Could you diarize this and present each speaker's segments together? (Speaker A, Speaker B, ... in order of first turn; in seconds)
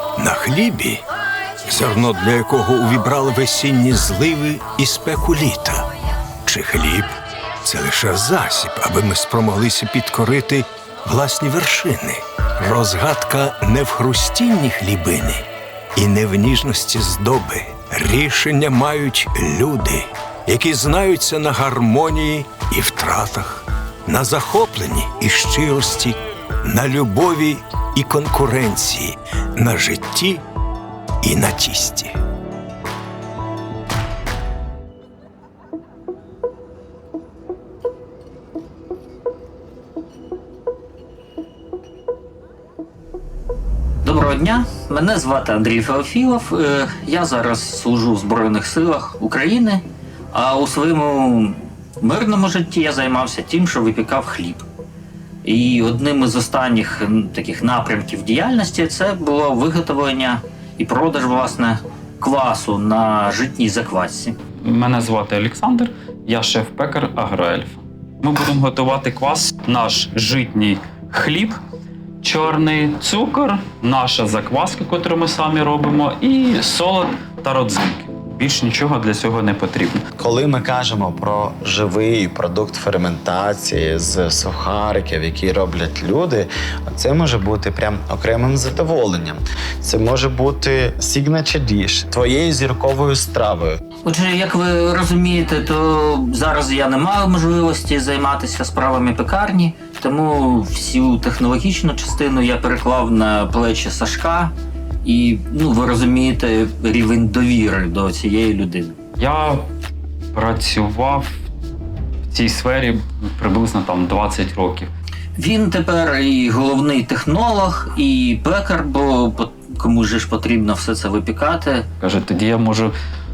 Speaker A: 0.2-1.0, 1.6-5.9, 6.4-30.4, 31.2-32.2
Speaker B: 44.0-54.6, 55.4-64.4, 94.0-109.0, 115.4-121.9
Speaker C: 64.6-71.6, 72.2-80.0, 109.2-109.6, 110.3-111.4, 112.3-114.9, 122.0-122.9
Speaker D: 80.2-93.8